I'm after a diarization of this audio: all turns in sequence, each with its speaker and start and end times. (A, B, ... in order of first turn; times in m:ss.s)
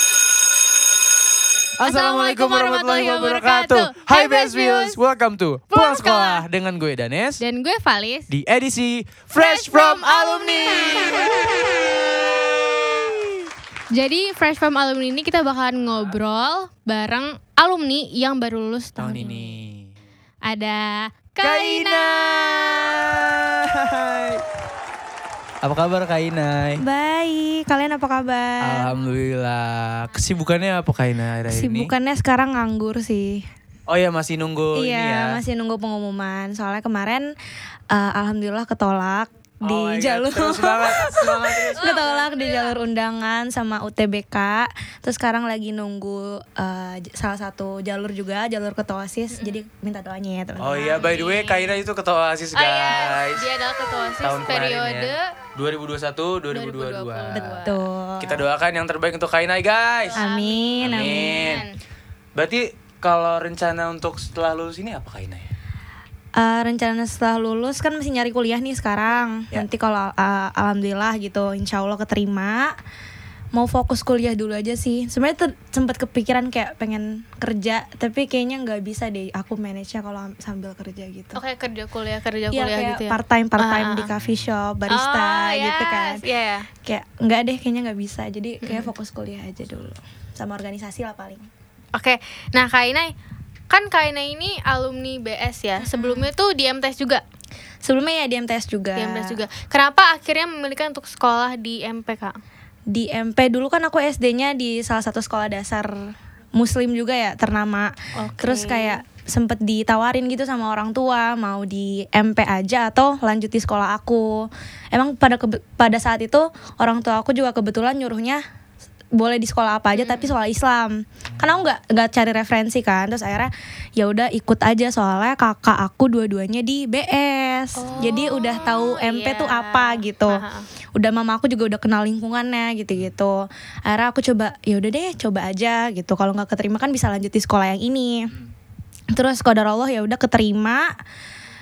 0:01.8-0:07.4 A
0:01.8-0:05.0 B
0:05.7-0:06.4 B
0:07.4-0:08.3 B
0:08.3-0:13.5 A
0:09.4-0:11.5 B
0:13.9-0:19.5 B
0:19.0-0:19.9 A
0:20.4-0:22.5 B
0:21.4-0:24.4 A
0:25.6-0:26.8 A
0:26.8-0:28.9 C
0:28.6-0:31.9 A
0:31.5-0:33.4 C
0:33.9-0:35.4 A
0:34.7-0:37.3 C
0:37.9-0:51.1 C
0:39.6-0:42.0 A
0:41.8-0:42.8 B
0:49.3-0:49.6 B
0:50.6-0:53.5 A
0:50.8-0:51.8 B
0:52.5-0:55.3 B
0:54.2-1:00.2 A
0:56.5-0:57.8 B
0:57.3-0:58.4 C
1:00.1-1:01.8 B
1:00.1-1:01.4 C
1:00.8-1:01.6 A
1:02.3-1:05.5 A
1:06.4-1:12.7 C
1:13.5-1:21.4 C
1:21.3-1:24.1 B
1:22.5-1:26.2 C
1:24.9-1:26.7 B
1:26.8-1:31.4 C
1:28.6-1:28.9 B
1:31.9-1:33.1 B
1:33.7-1:37.2 B
1:35.8-1:36.3 C
1:37.8-1:39.4 C
1:39.0-1:42.4 B
1:42.9-1:58.4 C
1:48.2-1:49.0 B
1:59.1-2:10.4 C
1:59.9-2:00.3 B
2:07.8-2:10.6 B
2:10.9-2:18.3 C
2:19.1-2:20.9 C